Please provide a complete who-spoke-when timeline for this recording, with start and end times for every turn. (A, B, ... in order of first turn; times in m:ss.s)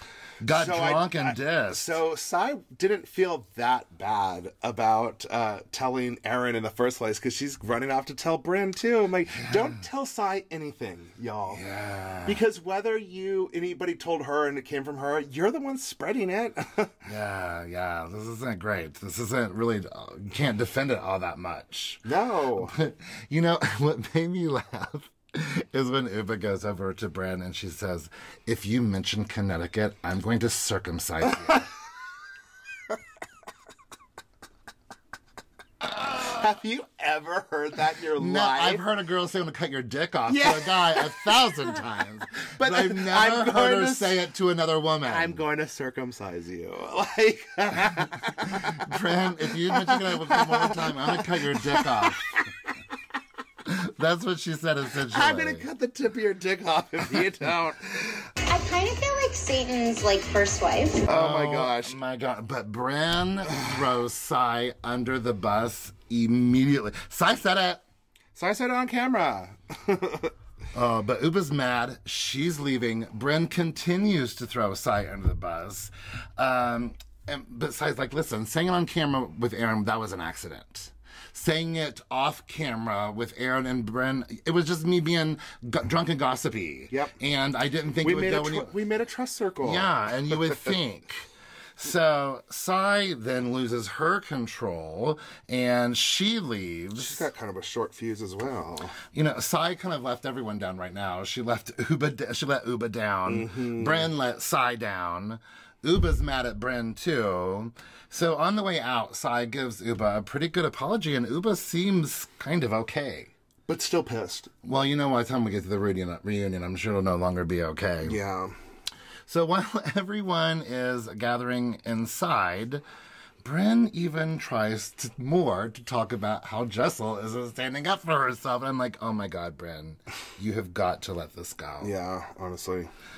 0:00.4-0:02.0 A
0:00.4-0:11.6 B
0:09.4-0:09.7 A
0:11.5-0:12.4 A
0:12.2-0:16.9 B
0:17.0-0:22.0 A
0:22.0-0:22.8 B
0:22.7-0:31.7 A
0:36.0-0:38.8 B
0:38.2-0:45.4 A
0:40.3-0:41.3 B
0:42.6-0:44.2 B
0:45.0-0:48.9 B
0:48.5-0:52.3 A
0:49.5-0:52.5 B
0:53.6-0:55.6 A
0:55.1-0:58.3 B
0:58.5-1:01.0 C
1:01.1-1:02.0 B
1:01.1-1:07.8 A
1:08.3-1:10.3 B
1:10.7-1:28.7 A
1:28.0-1:30.6 B
1:29.6-1:31.2 A
1:31.8-1:37.3 A
1:36.9-1:39.0 B
1:39.1-1:53.3 A
1:43.2-1:44.1 B
1:53.7-1:54.5 B
1:54.6-1:58.2 A
1:58.0-1:58.5 B
1:59.2-2:02.8 A
2:03.4-2:11.9 A
2:11.8-2:12.9 B